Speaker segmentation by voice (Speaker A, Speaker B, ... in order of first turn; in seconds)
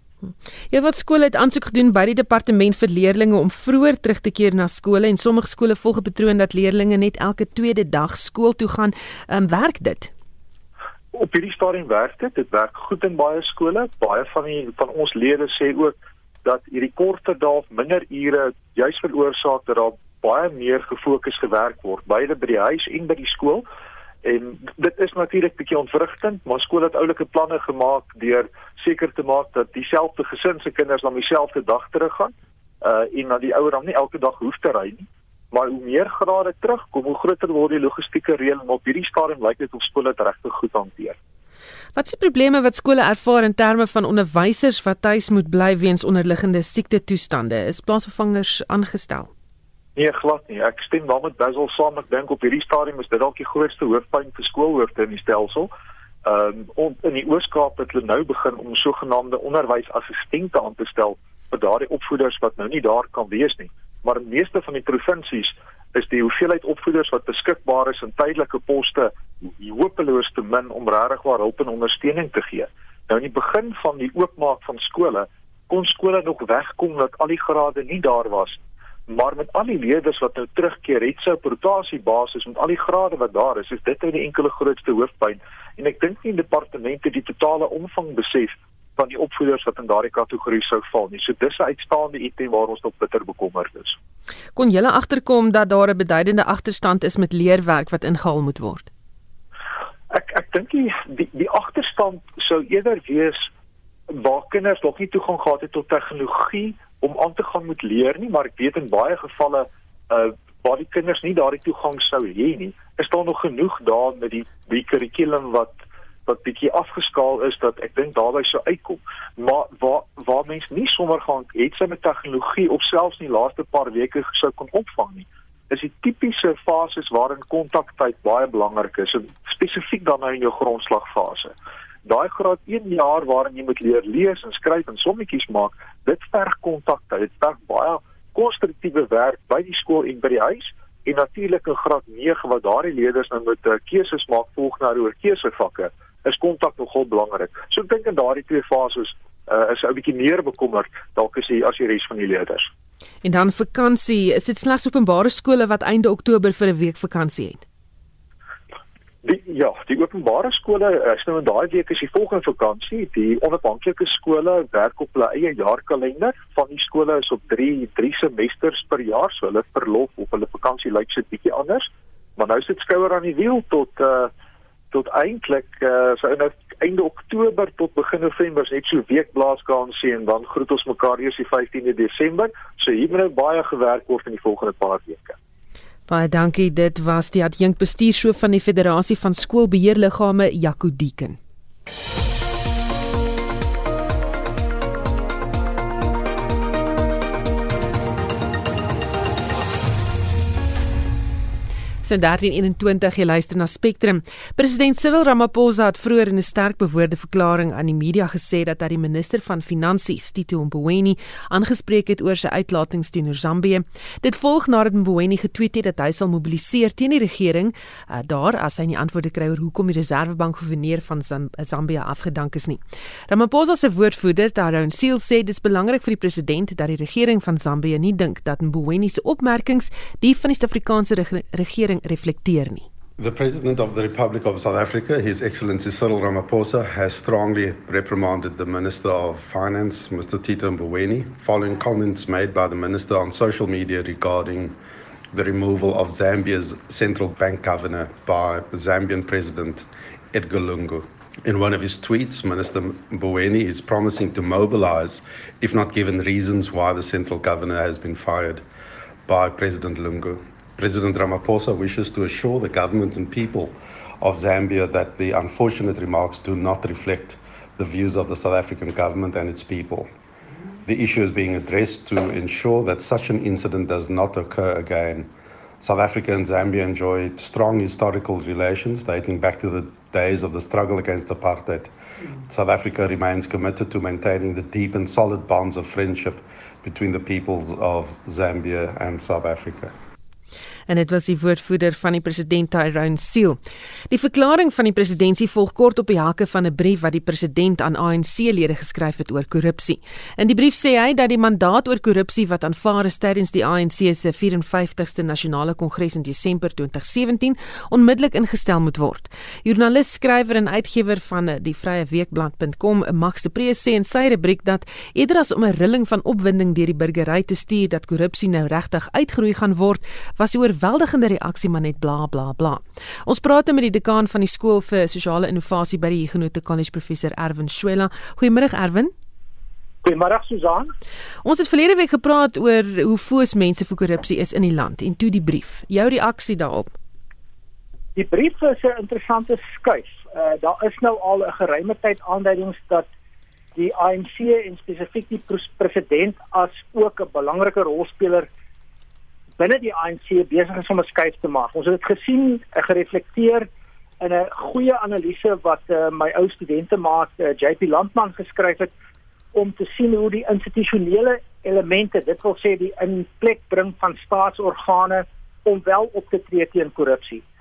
Speaker A: 0.2-10.1, 41.9-49.3, 94.5-98.9, 153.2-157.6, 186.1-191.4, 202.0-232.9, 290.9-293.6, 294.1-329.1, 331.4-336.9
Speaker B: 11.1-23.6, 24.2-41.2, 50.0-55.7, 56.2-94.0, 100.1-103.5, 104.1-131.5, 132.0-152.7, 159.2-174.3, 174.9-185.4
Speaker C: 233.2-244.8, 245.3-258.6, 259.2-270.1, 270.9-281.9, 282.5-289.9
Speaker D: 330.0-330.9, 338.1-343.0, 343.8-348.5, 349.6-353.7, 354.2-358.9, 359.5-367.4